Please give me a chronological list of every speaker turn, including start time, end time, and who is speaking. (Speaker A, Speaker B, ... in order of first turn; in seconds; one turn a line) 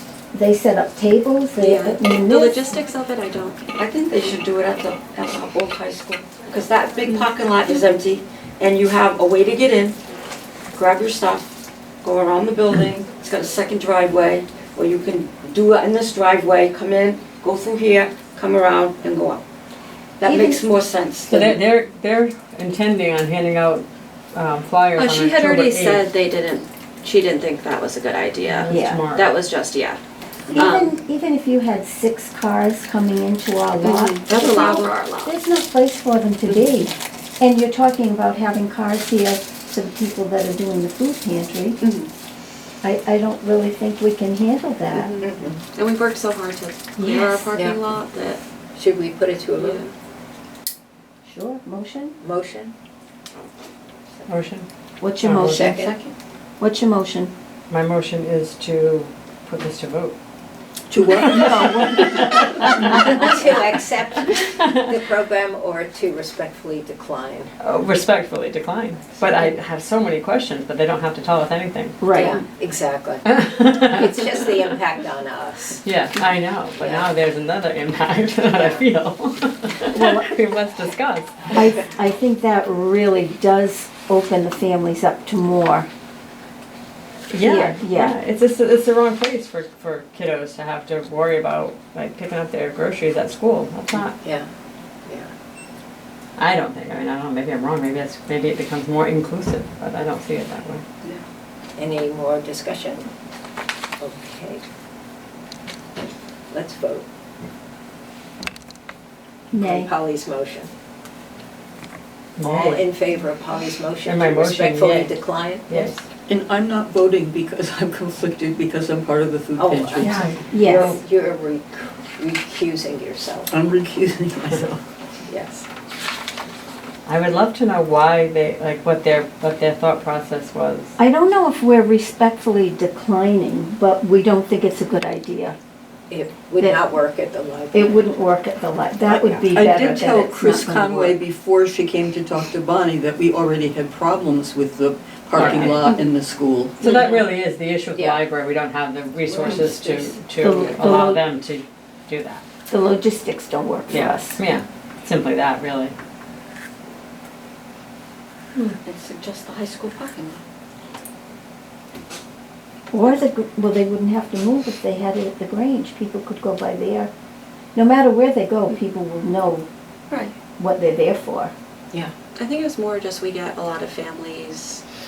Speaker A: 0.3-2.6
Speaker B: 1.6-3.7
Speaker C: 3.7-10.0
Speaker C: 10.7-11.5
Speaker C: 12.0-19.4
Speaker C: 20.2-21.4
Speaker A: 20.2-20.6
Speaker D: 21.3-26.1
Speaker B: 24.9-30.0
Speaker D: 28.4-29.3
Speaker A: 28.7-29.0
Speaker A: 30.5-41.8
Speaker B: 30.5-30.9
Speaker B: 33.8-35.3
Speaker B: 41.8-42.1
Speaker A: 42.8-45.1
Speaker B: 44.9-48.4
Speaker E: 45.2-45.6
Speaker A: 47.0-47.5
Speaker E: 47.5-47.8
Speaker E: 48.7-49.8
Speaker B: 49.6-49.9
Speaker A: 51.2-52.2
Speaker E: 52.2-52.7
Speaker D: 54.3-54.6
Speaker A: 55.0-55.9
Speaker D: 55.2-55.8
Speaker E: 55.5-55.9
Speaker F: 55.8-56.1
Speaker A: 56.6-57.3
Speaker D: 57.7-60.1
Speaker F: 60.9-63.0
Speaker A: 61.2-63.1
Speaker D: 61.2-61.6
Speaker D: 62.2-63.0
Speaker E: 62.8-67.5
Speaker D: 64.2-64.9
Speaker D: 67.6-72.2
Speaker E: 69.2-69.5
Speaker A: 72.0-72.4
Speaker E: 72.1-73.2
Speaker D: 73.2-74.8
Speaker E: 73.8-75.8
Speaker D: 75.8-81.4
Speaker E: 76.8-77.1
Speaker E: 78.5-78.8
Speaker A: 79.9-80.3
Speaker A: 81.5-85.9
Speaker D: 87.3-94.2
Speaker A: 87.4-88.2
Speaker E: 94.2-94.5
Speaker D: 96.4-100.8
Speaker E: 101.8-103.1
Speaker E: 104.0-104.6
Speaker E: 106.5-107.0
Speaker A: 109.5-109.9
Speaker E: 109.5-110.7
Speaker D: 112.4-112.9
Speaker E: 112.4-115.9
Speaker D: 114.0-116.0
Speaker F: 116.3-120.4
Speaker E: 119.6-123.5
Speaker A: 120.0-121.0
Speaker D: 120.0-120.9
Speaker F: 123.5-124.8
Speaker E: 125.3-125.7
Speaker D: 127.0-130.9
Speaker A: 131.0-135.6
Speaker E: 136.1-138.0
Speaker A: 137.7-141.2
Speaker F: 139.1-146.8
Speaker D: 145.3-145.9
Speaker D: 146.8-152.4
Speaker B: 146.8-147.1
Speaker E: 147.9-148.2
Speaker E: 149.3-150.1
Speaker A: 150.4-151.2
Speaker A: 152.7-154.4
Speaker D: 153.9-155.9
Speaker C: 158.8-160.4
Speaker A: 162.9-167.1
Speaker A: 167.7-169.7
Speaker B: 170.1-170.3
Speaker A: 170.6-171.5
Speaker B: 172.3-174.8